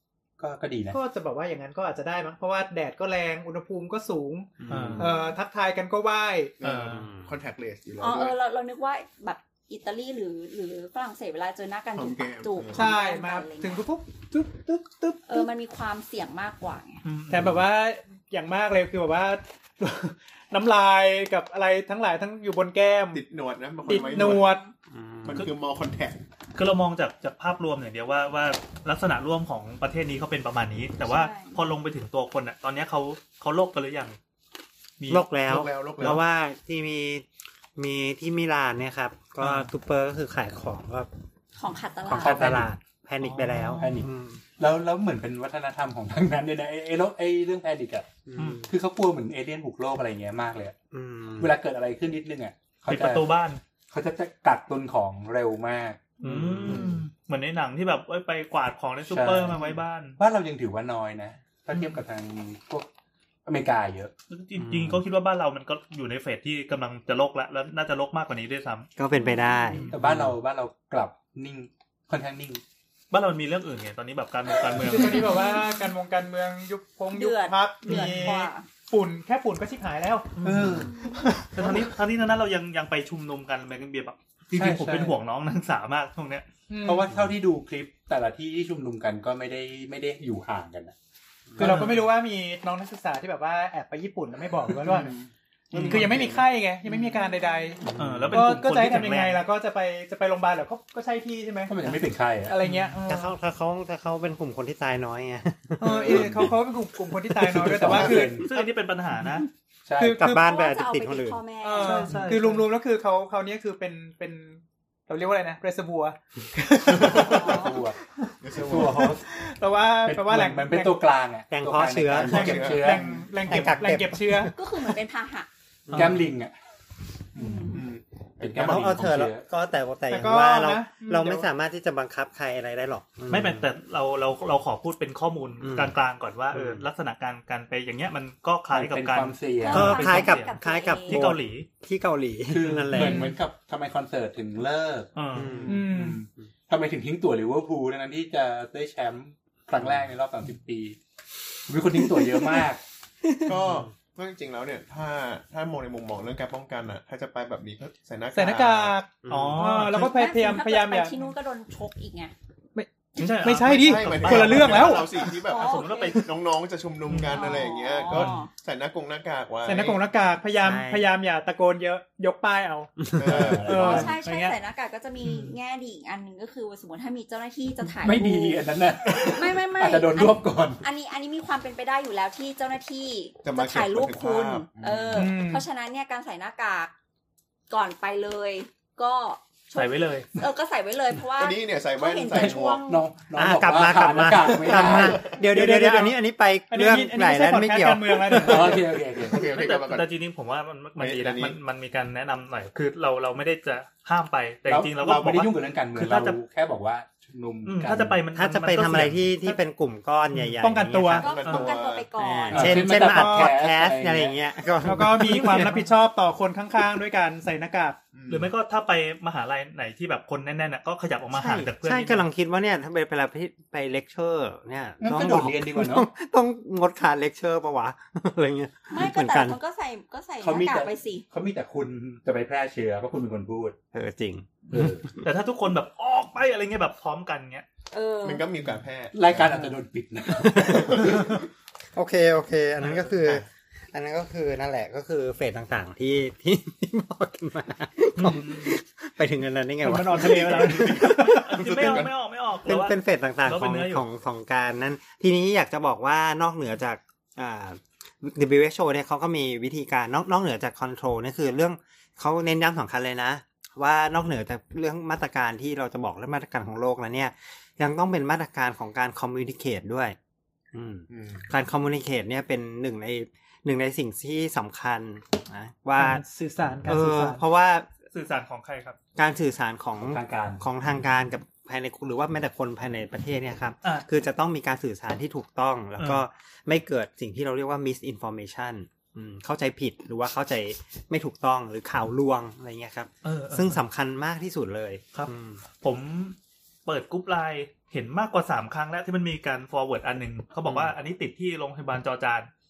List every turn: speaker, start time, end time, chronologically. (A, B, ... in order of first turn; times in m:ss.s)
0:00.4-0:01.0 A
0:00.9-0:06.6 B
0:04.7-0:05.1 C
0:04.7-0:05.1 D
0:04.7-0:05.0 A
0:06.6-0:08.4 C
0:06.6-0:07.1 D
0:06.9-0:07.3 E
0:08.0-0:13.8 F
0:12.0-0:12.9 C
0:12.7-0:15.5 B
0:15.3-0:17.0 F
0:17.0-0:17.6 D
0:17.3-0:23.2 B
0:23.1-0:24.5 C
0:23.9-0:24.6 B
0:23.9-0:24.7 F
0:24.9-0:25.5 E
0:25.2-0:26.2 C
0:26.6-0:34.2 D
0:31.0-0:31.6 F
0:35.0-0:35.2 D
0:35.1-0:41.1 E
0:35.5-0:36.2 C
0:39.4-0:39.7 D
0:41.6-0:42.4 F
0:42.1-0:44.4 E
0:42.2-0:42.7 A
0:43.2-0:44.0 D
0:43.8-0:50.8 A
0:48.3-0:48.7 E
0:48.4-0:48.6 D
0:50.9-0:51.6 E
0:51.4-0:53.3 A
0:52.9-0:53.6 D
0:53.9-0:57.0 A
0:56.2-1:00.2 D
0:56.7-0:57.0 E
0:59.1-1:02.9 A
1:03.4-1:04.1 A
1:04.3-1:08.9 D
1:04.6-1:05.0 E
1:09.0-1:10.3 E
1:09.2-1:09.8 F
1:09.7-1:10.0 D
1:09.9-1:12.6 A
1:13.1-1:15.3 D
1:14.8-1:20.4 B
1:15.1-1:15.9 F
1:17.1-1:18.7 F
1:17.9-1:18.3 D
1:20.4-1:20.9 D
1:20.4-1:21.0 A
1:20.8-1:21.2 F
1:21.1-1:21.9 B
1:21.5-1:26.5 D
1:24.5-1:25.2 A
1:26.7-1:27.1 B
1:26.8-1:31.0 A
1:31.6-1:32.0 A
1:31.6-1:35.2 B
1:31.6-1:31.9 D
1:34.7-1:35.3 A
1:35.7-1:36.3 D
1:35.7-1:36.4 C
1:35.8-1:43.3 B
1:37.9-1:38.3 E
1:38.0-1:39.4 D
1:41.7-1:42.6 A
1:42.6-1:43.0 D
1:43.1-1:46.5 E
1:45.8-1:48.7 B
1:45.9-1:46.4 C
1:46.1-1:46.5 A
1:47.4-1:48.5 A
1:47.8-1:48.1 E
1:48.4-1:49.5 D
1:49.9-1:50.2 A
1:50.0-1:50.4 B
1:50.2-1:51.4 E
1:50.3-1:52.2 F
1:51.6-1:57.6 B
1:51.8-1:52.6 D
1:56.9-1:57.6 C
1:57.1-1:58.0 A
1:57.1-1:57.8 F
1:58.4-1:59.2 C
1:58.5-1:59.3 A
1:59.0-2:01.1 B
2:00.0-2:03.1 A
2:01.5-2:02.6 E
2:02.2-2:03.3 C
2:02.3-2:04.5 B
2:03.5-2:04.5 E
2:04.5-2:05.5 F
2:05.9-2:06.3 E
2:05.9-2:06.5 A
2:07.4-2:07.8 A
2:07.4-2:07.8 F
2:07.7-2:09.1 C
2:08.4-2:09.4 A
2:08.6-2:13.7 E
2:10.1-2:11.5 B
2:13.3-2:21.7 D
2:15.6-2:16.0 E
2:16.5-2:16.9 E
2:18.7-2:20.2 A
2:19.6-2:21.3 F
2:19.7-2:23.3 E
2:22.5-2:25.1 A
2:22.9-2:23.3 D
2:23.0-2:23.3 B
2:25.2-2:25.7 D
2:25.4-2:25.9 E
2:25.6-2:25.8 C
2:25.7-2:26.2 B
2:25.9-2:31.0 A
2:31.7-2:32.8 A
2:33.5-2:39.0 C
2:33.5-2:33.9 E
2:38.3-2:41.3 B
2:39.2-2:39.7 E
2:39.3-2:40.1 D
2:39.9-2:42.3 F
2:42.8-2:45.3 B
2:43.2-2:46.3 D
2:43.6-2:50.0 C
2:45.3-2:46.2 F
2:47.1-2:47.6 D
2:47.3-2:48.5 F
2:48.1-2:48.4 D
2:49.6-2:52.9 B
2:50.6-2:51.0 E
2:53.0-2:53.7 E
2:53.2-2:54.1 C
2:53.3-2:53.8 A
2:53.5-2:54.6 B
2:53.8-3:06.9 F
2:55.2-2:55.6 D
2:58.0-3:00.8 A
3:03.4-3:05.2 C
3:04.8-3:05.1 A
3:05.1-3:05.7 B
3:07.7-3:13.1 F
3:09.8-3:10.3 D
3:11.3-3:12.8 C
3:12.3-3:15.2 A
3:13.4-3:18.7 E
3:14.6-3:15.4 C
3:15.3-3:16.2 B
3:16.7-3:19.0 B
3:18.3-3:19.5 A
3:18.4-3:20.1 C
3:19.4-3:26.4 D
3:21.0-3:21.6 C
3:24.7-3:28.2 A
3:27.6-3:29.2 D
3:28.3-3:31.3 E
3:30.6-3:31.3 B
3:31.2-3:32.8 C
3:31.2-3:32.7 F
3:31.4-3:31.8 D
3:32.2-3:35.7 E
3:32.5-3:34.4 A
3:32.7-3:33.6 B
3:34.8-3:38.0 B
3:38.1-3:38.5 C
3:38.3-3:42.2 D
3:41.3-3:49.6 E
3:45.0-3:46.1 A
3:48.9-3:51.3 F
3:50.4-3:53.8 A
3:53.9-3:55.0 E
3:54.7-3:55.1 A
3:55.2-3:57.7 D
3:57.9-3:58.5 F
3:58.2-3:59.6 C
3:59.1-4:01.2 A
4:00.4-4:01.2 E
4:00.6-4:01.4 C
4:01.9-4:11.8 E
4:02.8-4:03.5 C
4:08.2-4:08.8 D
4:09.8-4:14.0 D
4:09.9-4:11.5 B
4:10.2-4:12.1 C
4:12.6-4:30.2 E
4:30.7-4:36.2 E
4:31.1-4:31.5 C
4:36.0-4:37.4 B
4:36.8-4:37.9 E
4:38.1-4:39.0 D
4:39.2-4:55.6 E
4:40.1-4:40.6 A
4:46.0-4:46.2 D
4:53.2-4:53.8 D
4:55.8-5:02.5 D
5:00.7-5:00.9 E